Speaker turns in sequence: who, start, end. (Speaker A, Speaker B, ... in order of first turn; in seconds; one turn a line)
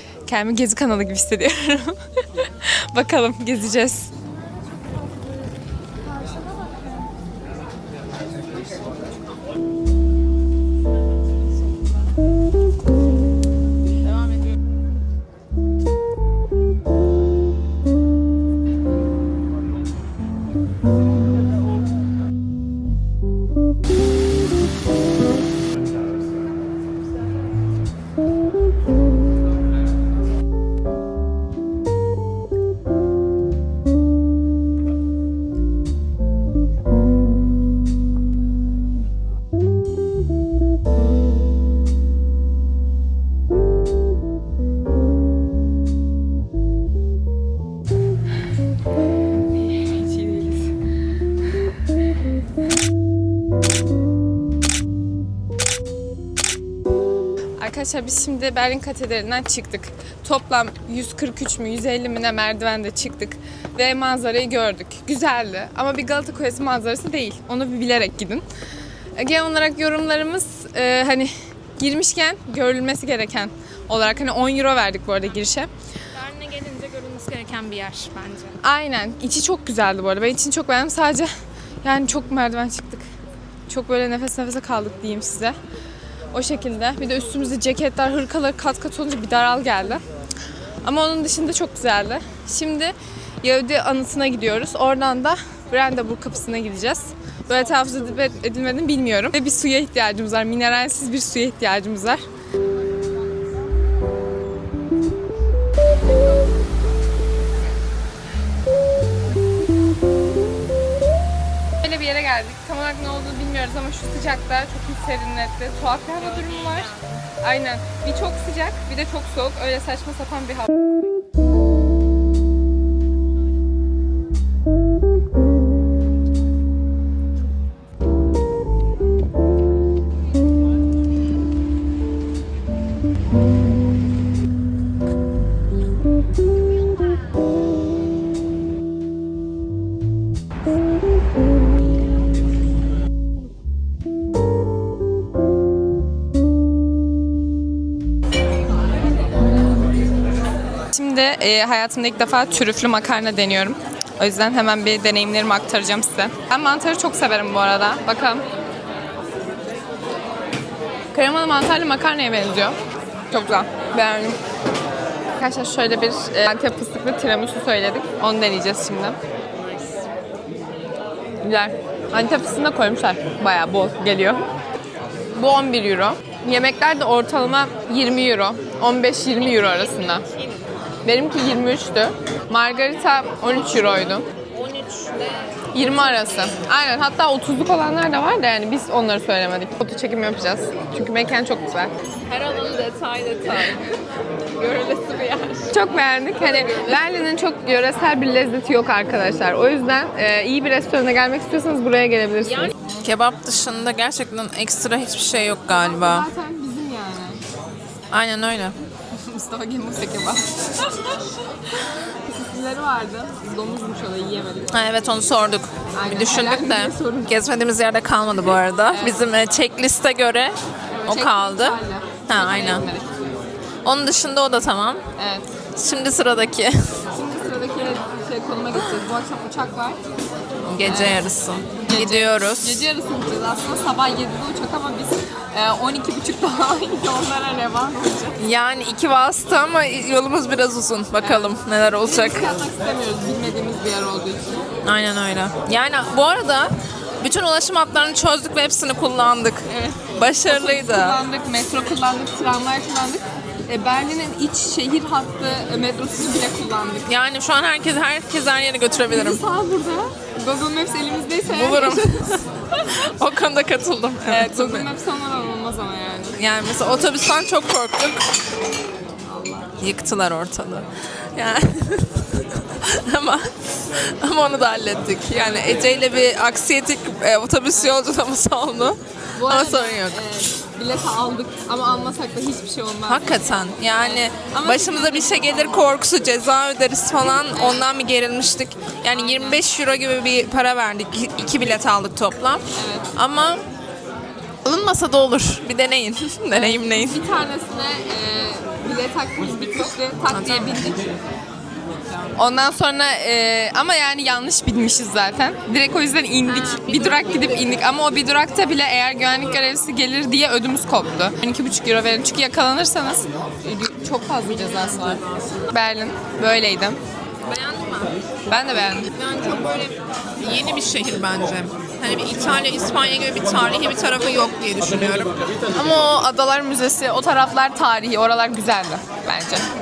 Speaker A: 0.2-4.1
Speaker A: 49.5-50.7
Speaker A: 57.6-68.4
Speaker A: 69.2-75.7
Speaker B: 76.1-78.6
Speaker A: 78.6-81.3
Speaker A: 81.8-83.0
Speaker A: 83.7-85.5
Speaker A: 86.3-90.0
Speaker A: 90.8-102.2
Speaker A: 111.8-120.8
Speaker B: 116.2-117.0
Speaker A: 150.9-158.4
Speaker A: 161.1-162.8
Speaker A: 163.3-164.4
Speaker A: 165.4-169.2
Speaker A: 171.4-174.4
Speaker A: 175.3-180.2
Speaker B: 180.3-180.7
Speaker A: 181.0-184.3
Speaker B: 184.5-186.3
Speaker A: 185.7-191.9
Speaker B: 192.2-193.9
Speaker B: 194.5-197.0
Speaker A: 195.7-202.7
Speaker B: 202.4-206.3
Speaker A: 205.9-207.4
Speaker B: 208.1-208.8
Speaker A: 209.1-214.8
Speaker B: 214.7-222.8
Speaker A: 215.9-217.3
Speaker A: 218.9-219.3
Speaker A: 220.9-223.1
Speaker B: 223.8-225.0
Speaker A: 225.2-225.4
Speaker B: 225.8-227.0
Speaker A: 227.1-230.0
Speaker B: 230.7-232.9
Speaker A: 230.8-238.4
Speaker B: 238.4-242.6
Speaker A: 241.2-244.7
Speaker B: 244.8-251.2
Speaker A: 249.7-257.1
Speaker B: 257.1-259.4
Speaker A: 259.1-262.9
Speaker B: 261.5-264.9
Speaker A: 264.2-266.4
Speaker B: 266.4-268.2
Speaker A: 269.2-269.7
Speaker B: 269.8-280.2
Speaker A: 277.7-278.0
Speaker A: 279.3-285.9
Speaker B: 283.1-293.6
Speaker A: 287.5-287.9
Speaker A: 289.1-289.6
Speaker A: 292.7-293.1
Speaker B: 294.6-297.2
Speaker A: 296.5-301.1
Speaker B: 300.3-301.1
Speaker A: 302.3-317.0
Speaker B: 306.4-307.8
Speaker B: 314.5-315.6
Speaker B: 317.4-318.1
Speaker A: 318.5-319.1
Speaker B: 319.1-325.3
Speaker A: 325.7-329.6